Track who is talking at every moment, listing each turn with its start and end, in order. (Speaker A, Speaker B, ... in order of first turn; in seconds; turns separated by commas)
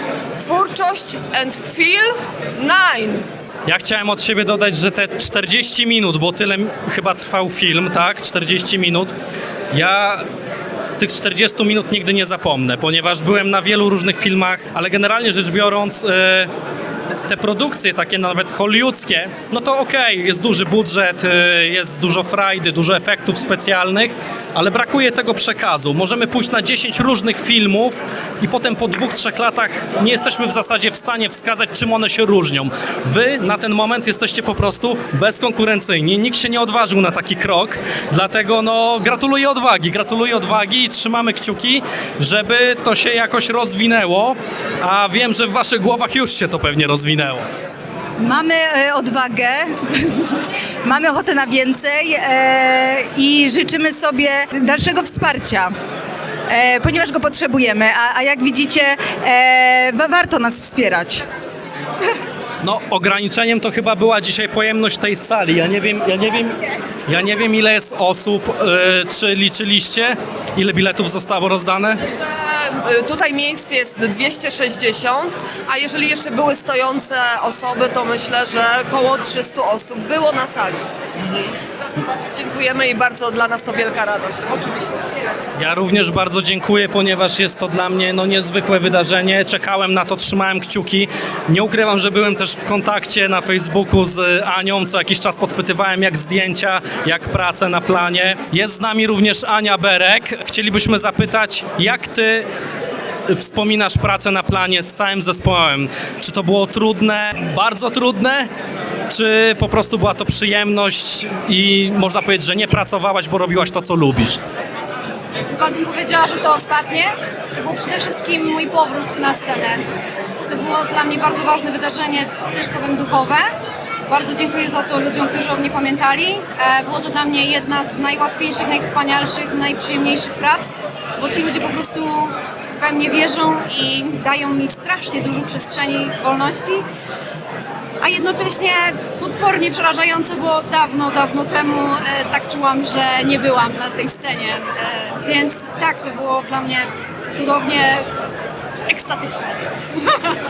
Speaker A: 0.4-3.2, Speaker B: 3.6-9.1, Speaker B: 9.7-10.2, Speaker B: 11.0-16.5, Speaker B: 17.2-47.4, Speaker C: 48.2-50.3, Speaker C: 50.8-55.7, Speaker C: 56.5-61.2, Speaker B: 62.6-72.0, Speaker A: 72.1-80.8, Speaker A: 81.7-85.3, Speaker B: 85.6-102.5, Speaker B: 103.3-108.5, Speaker B: 109.1-114.4, Speaker D: 115.5-119.8, Speaker D: 120.5-123.5, Speaker D: 124.1-136.8, Speaker D: 138.0-148.1, Speaker D: 148.9-150.3